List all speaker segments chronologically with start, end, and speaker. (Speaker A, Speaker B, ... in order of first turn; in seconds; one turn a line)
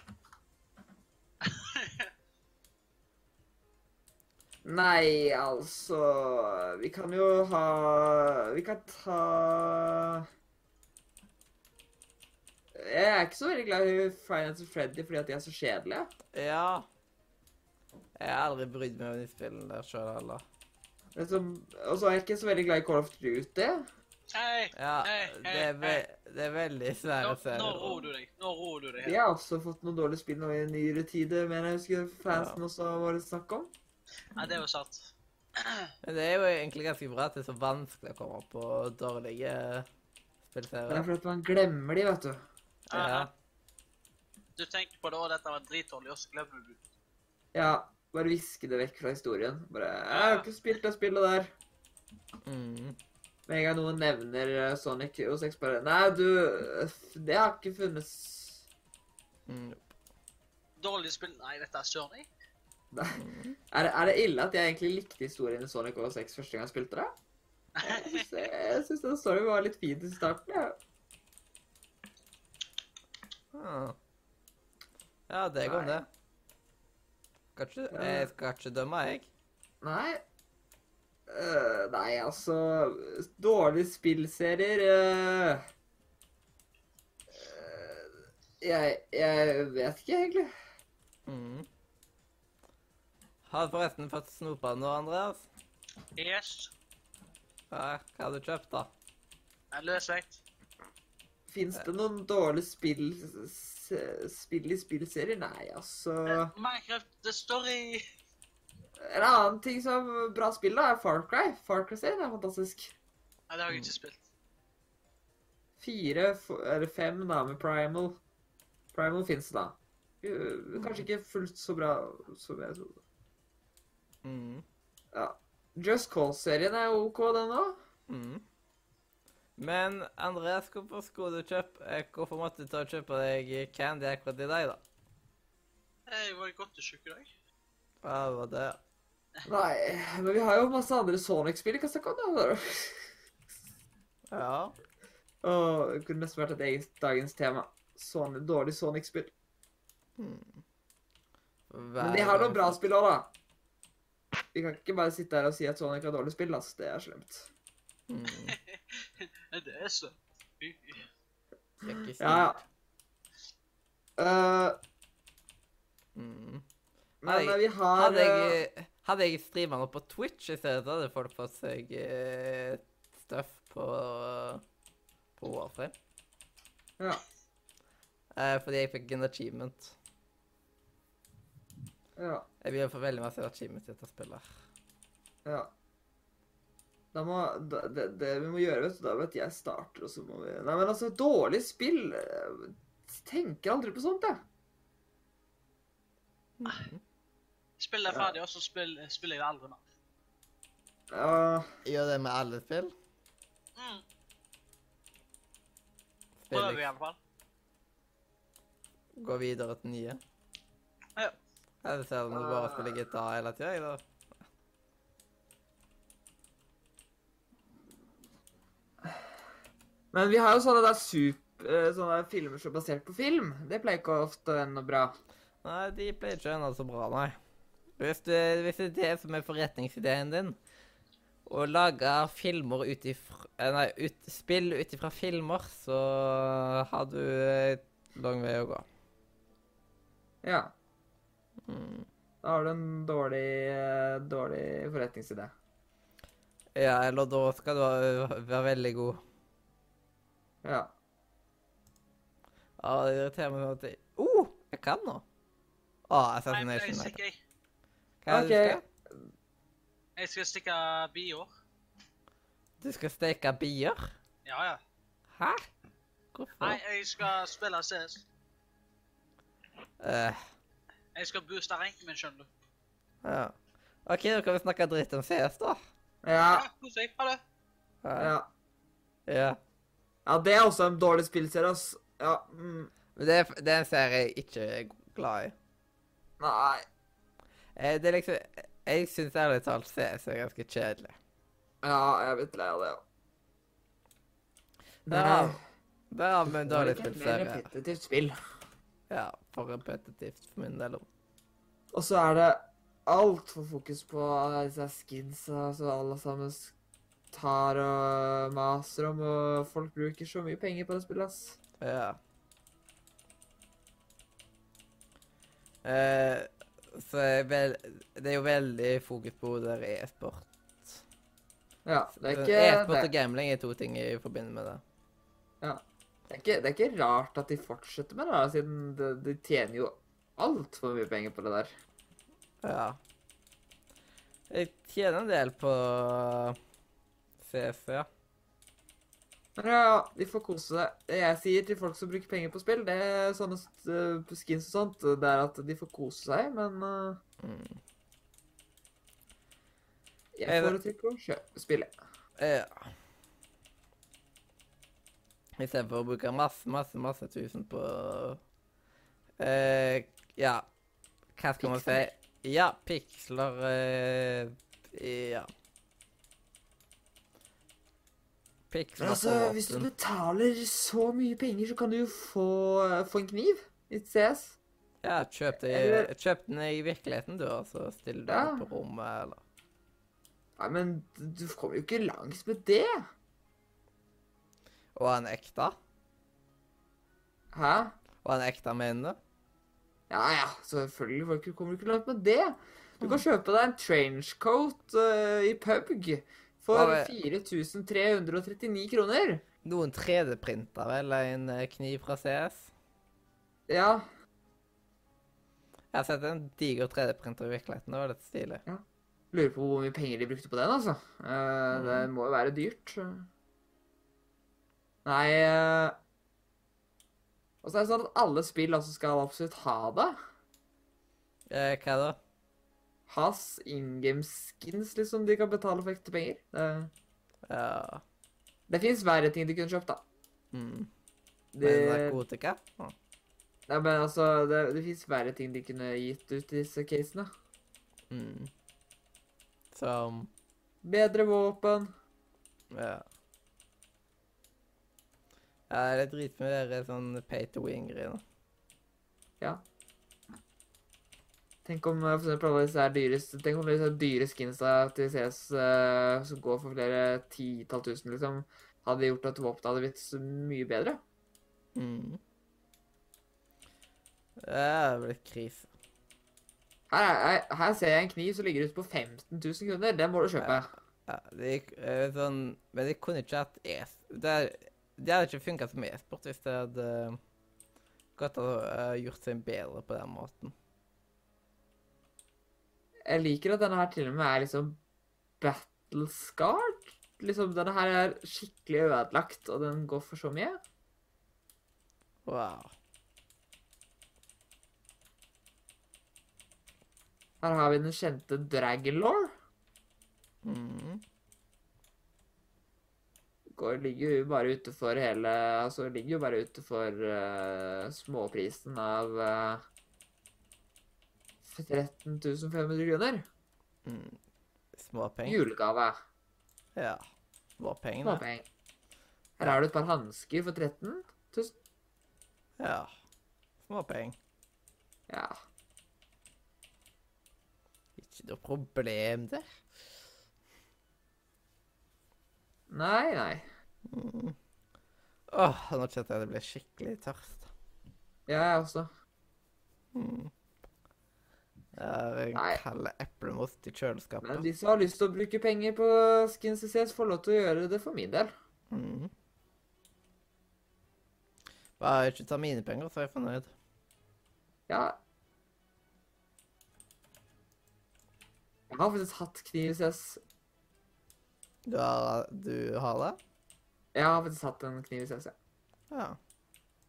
Speaker A: 1.4-2.1
Speaker B: 4.7-10.2
Speaker B: 12.8-16.1
Speaker C: 16.3-16.9
Speaker C: 18.2-20.4
Speaker B: 21.2-23.9
Speaker A: 24.3-26.0
Speaker C: 24.8-28.1
Speaker A: 27.2-29.2
Speaker B: 29.0-33.7
Speaker C: 32.3-32.6
Speaker A: 34.4-35.0
Speaker A: 35.6-35.9
Speaker C: 36.0-39.9
Speaker C: 40.5-41.1
Speaker B: 40.9-42.4
Speaker C: 42.9-43.3
Speaker A: 42.9-43.3
Speaker A: 44.6-46.8
Speaker B: 47.5-51.5
Speaker A: 50.1-50.5
Speaker C: 52.5-53.0
Speaker B: 53.5-58.6
Speaker C: 59.5-59.8
Speaker A: 60.8-62.3
Speaker B: 62.9-63.2
Speaker C: 63.1-63.6
Speaker B: 63.7-67.1
Speaker A: 67.8-68.3
Speaker B: 67.8-70.8
Speaker C: 73.5-74.0
Speaker C: 75.3-76.1
Speaker B: 75.6-76.0
Speaker C: 77.5-79.3
Speaker B: 77.9-78.3
Speaker B: 79.8-80.2
Speaker B: 81.3-85.6
Speaker B: 87.3-90.5
Speaker C: 91.3-91.7
Speaker C: 93.5-95.5
Speaker A: 96.2-96.7
Speaker C: 97.7-98.9
Speaker A: 99.7-100.4
Speaker B: 101.5-106.5
Speaker A: 106.5-108.0
Speaker B: 109.0-112.9
Speaker A: 113.5-114.2
Speaker B: 115.8-118.2
Speaker B: 118.9-123.0
Speaker C: 120.8-121.0
Speaker C: 124.2-124.6
Speaker B: 125.1-127.8
Speaker C: 128.1-128.4
Speaker C: 129.6-134.8
Speaker A: 136.1-137.3
Speaker C: 138.0-138.8
Speaker B: 139.5-143.1
Speaker C: 144.3-144.7
Speaker B: 145.4-149.3
Speaker C: 150.2-150.6
Speaker C: 151.7-152.8
Speaker B: 152.0-153.3
Speaker B: 154.5-157.5
Speaker C: 158.1-158.6
Speaker A: 159.5-161.1
Speaker C: 161.8-162.6
Speaker B: 162.2-162.6
Speaker B: 164.2-164.8
Speaker C: 166.2-166.6
Speaker B: 167.2-168.6
Speaker C: 167.2-174.6
Speaker C: 175.4-175.9
Speaker C: 178.3-179.9
Speaker B: 182.2-182.5
Speaker C: 182.6-184.5
Speaker B: 185.4-185.7
Speaker B: 187.1-194.4
Speaker C: 196.6-197.0
Speaker A: 197.8-199.8
Speaker B: 201.1-201.7
Speaker C: 201.8-202.9
Speaker A: 203.8-204.0
Speaker C: 206.4-206.9
Speaker A: 206.5-207.2
Speaker C: 209.2-210.2
Speaker C: 211.8-214.0
Speaker B: 212.3-213.0
Speaker B: 220.1-225.1
Speaker C: 225.6-227.4
Speaker C: 228.0-230.6
Speaker C: 231.5-238.9
Speaker B: 240.4-240.7
Speaker C: 241.7-242.1
Speaker B: 242.4-245.5
Speaker C: 246.8-249.2
Speaker B: 250.6-250.9
Speaker C: 252.8-255.2
Speaker C: 256.1-257.2
Speaker A: 256.5-257.4
Speaker C: 258.2-258.8
Speaker B: 258.3-258.8
Speaker A: 260.2-261.5
Speaker C: 262.8-264.1
Speaker A: 264.4-264.8
Speaker C: 265.3-265.7
Speaker C: 266.3-266.8
Speaker A: 266.6-268.2
Speaker C: 270.0-270.4
Speaker A: 271.1-272.5
Speaker C: 273.2-275.8
Speaker B: 276.2-276.7
Speaker A: 276.5-277.4
Speaker C: 278.0-278.3
Speaker B: 278.2-278.5
Speaker C: 279.3-279.6
Speaker B: 280.3-282.9
Speaker C: 283.2-285.5
Speaker B: 286.4-286.8
Speaker C: 287.8-291.2
Speaker B: 291.8-293.0
Speaker B: 295.1-295.6
Speaker C: 295.1-295.6
Speaker C: 296.1-297.7
Speaker B: 296.5-298.4
Speaker C: 299.1-301.1
Speaker B: 301.9-306.7
Speaker B: 307.3-311.6
Speaker C: 311.8-312.2
Speaker C: 315.8-321.0
Speaker B: 321.9-323.1
Speaker C: 322.3-324.8
Speaker B: 325.6-331.7
Speaker C: 332.6-333.0
Speaker C: 334.5-336.6
Speaker C: 337.4-338.1
Speaker B: 339.6-347.2
Speaker C: 347.4-347.8
Speaker B: 350.4-351.9
Speaker C: 350.5-350.8
Speaker C: 352.4-352.9
Speaker C: 355.6-358.4
Speaker C: 359.4-360.7
Speaker C: 361.4-365.5
Speaker B: 361.6-362.1
Speaker C: 368.7-369.9
Speaker B: 369.0-374.6
Speaker C: 375.0-379.4
Speaker B: 375.6-376.1
Speaker B: 378.3-378.6
Speaker B: 380.6-383.1
Speaker C: 384.9-385.8
Speaker B: 387.5-387.9
Speaker C: 388.2-389.2
Speaker B: 390.1-399.4
Speaker C: 396.7-397.1
Speaker C: 399.6-402.7
Speaker B: 403.7-404.1
Speaker C: 405.9-408.6
Speaker B: 408.7-413.3
Speaker C: 411.7-412.1
Speaker B: 415.1-416.0
Speaker B: 417.6-420.1
Speaker C: 421.5-422.2
Speaker B: 423.1-426.9
Speaker C: 427.5-428.0
Speaker B: 428.7-430.0
Speaker C: 430.5-430.9
Speaker B: 431.5-432.2
Speaker C: 431.6-432.9
Speaker B: 433.7-437.3
Speaker C: 438.1-438.5
Speaker C: 439.7-440.3
Speaker B: 440.8-441.9
Speaker C: 442.7-443.1
Speaker C: 445.7-448.2
Speaker B: 451.6-461.0
Speaker C: 461.8-462.2
Speaker C: 464.4-465.7
Speaker B: 466.9-470.7
Speaker C: 470.4-477.2
Speaker C: 478.2-480.5
Speaker B: 483.1-484.8
Speaker B: 485.4-490.6
Speaker C: 492.3-492.7
Speaker B: 497.4-499.3
Speaker C: 500.4-501.0
Speaker B: 503.6-509.6
Speaker B: 511.4-513.2
Speaker C: 513.9-514.2
Speaker C: 514.8-515.4
Speaker B: 515.2-516.0
Speaker C: 516.8-517.0
Speaker C: 517.6-518.2
Speaker B: 518.0-518.5
Speaker B: 519.4-521.5
Speaker C: 522.6-522.9
Speaker C: 523.6-524.2
Speaker C: 528.0-529.5
Speaker B: 532.7-533.5
Speaker C: 533.9-534.4
Speaker C: 535.3-537.5
Speaker B: 538.3-538.9
Speaker C: 539.9-540.3
Speaker C: 541.8-544.5
Speaker B: 542.3-542.6
Speaker B: 544.2-548.3
Speaker C: 548.7-549.1
Speaker C: 551.8-553.5
Speaker B: 554.7-555.0
Speaker B: 558.7-560.2
Speaker C: 561.7-563.2
Speaker B: 564.0-565.4
Speaker C: 565.9-566.2